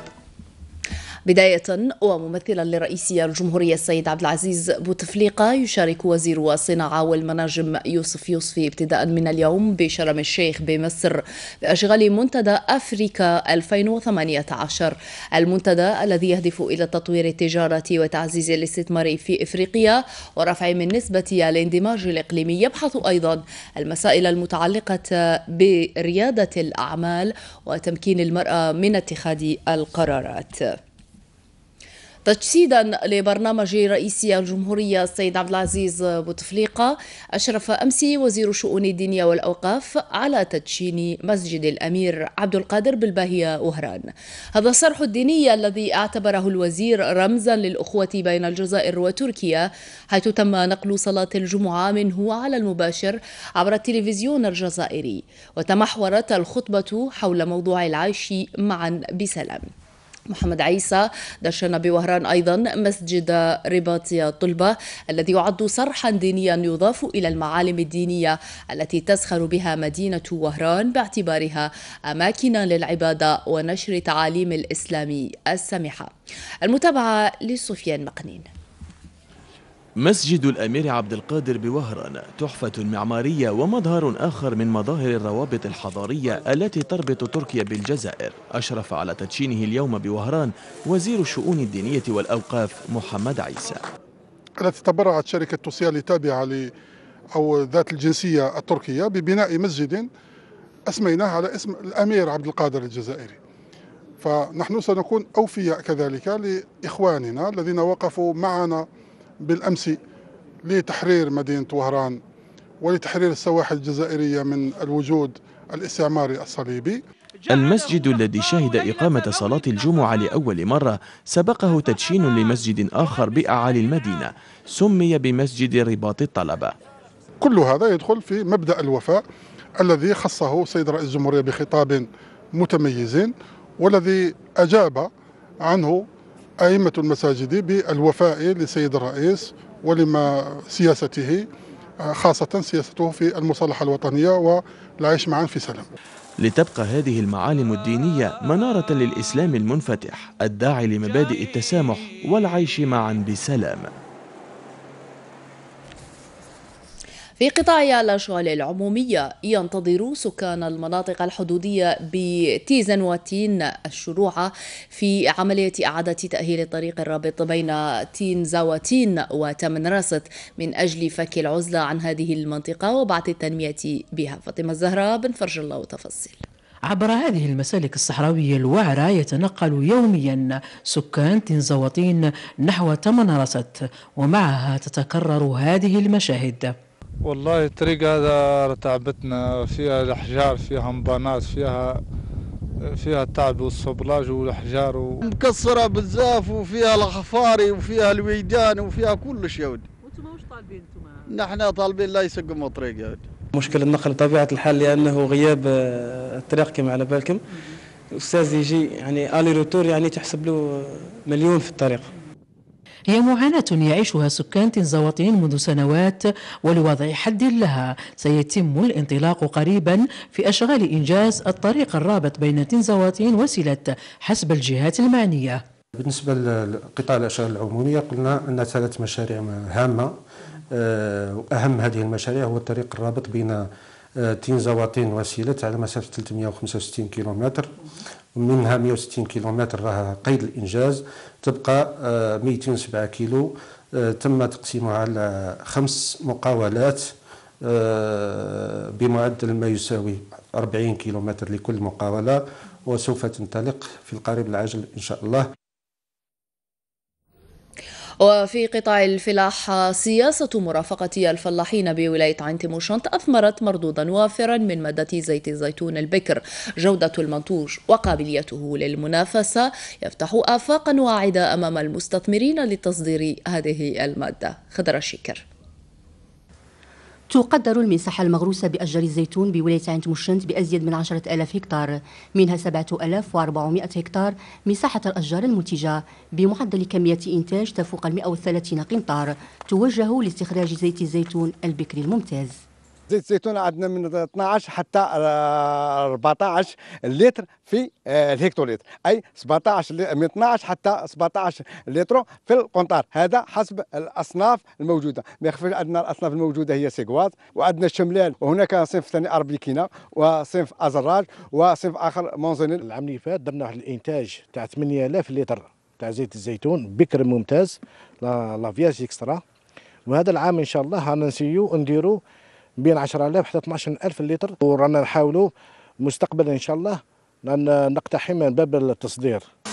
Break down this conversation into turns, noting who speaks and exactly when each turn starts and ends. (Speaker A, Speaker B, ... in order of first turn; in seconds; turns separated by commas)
Speaker A: 1.3-30.6, Speaker A: 32.2-59.7, Speaker A: 60.3-76.1, Speaker A: 76.6-78.5, Speaker B: 80.0-93.8, Speaker C: 94.6-96.7, Speaker C: 97.3-100.1, Speaker C: 100.9-103.4, Speaker C: 104.2-108.8, Speaker C: 109.4-110.0, Speaker C: 110.6-112.2, Speaker C: 112.8-117.0, Speaker B: 117.5-126.7, Speaker C: 127.4-129.2, Speaker C: 129.8-135.1, Speaker C: 135.6-136.0, Speaker C: 136.6-141.4, Speaker C: 142.1-145.8, Speaker B: 146.4-153.9, Speaker A: 157.4-176.4, Speaker D: 176.8-186.8, Speaker E: 187.2-192.0, Speaker E: 192.8-195.2, Speaker F: 195.4-199.8, Speaker F: 201.4-203.2, Speaker G: 203.6-205.7, Speaker G: 206.4-207.4, Speaker G: 208.2-210.6, Speaker G: 211.2-212.0, Speaker D: 213.1-225.6, Speaker H: 225.9-230.1, Speaker H: 230.7-233.7, Speaker H: 234.2-237.7, Speaker H: 238.3-247.1, Speaker H: 247.6-255.4, Speaker A: 258.2-275.4, Speaker I: 277.3-292.6, Speaker J: 293.1-312.8, Speaker K: 312.8-319.4, Speaker K: 320.1-322.2, Speaker K: 322.8-329.5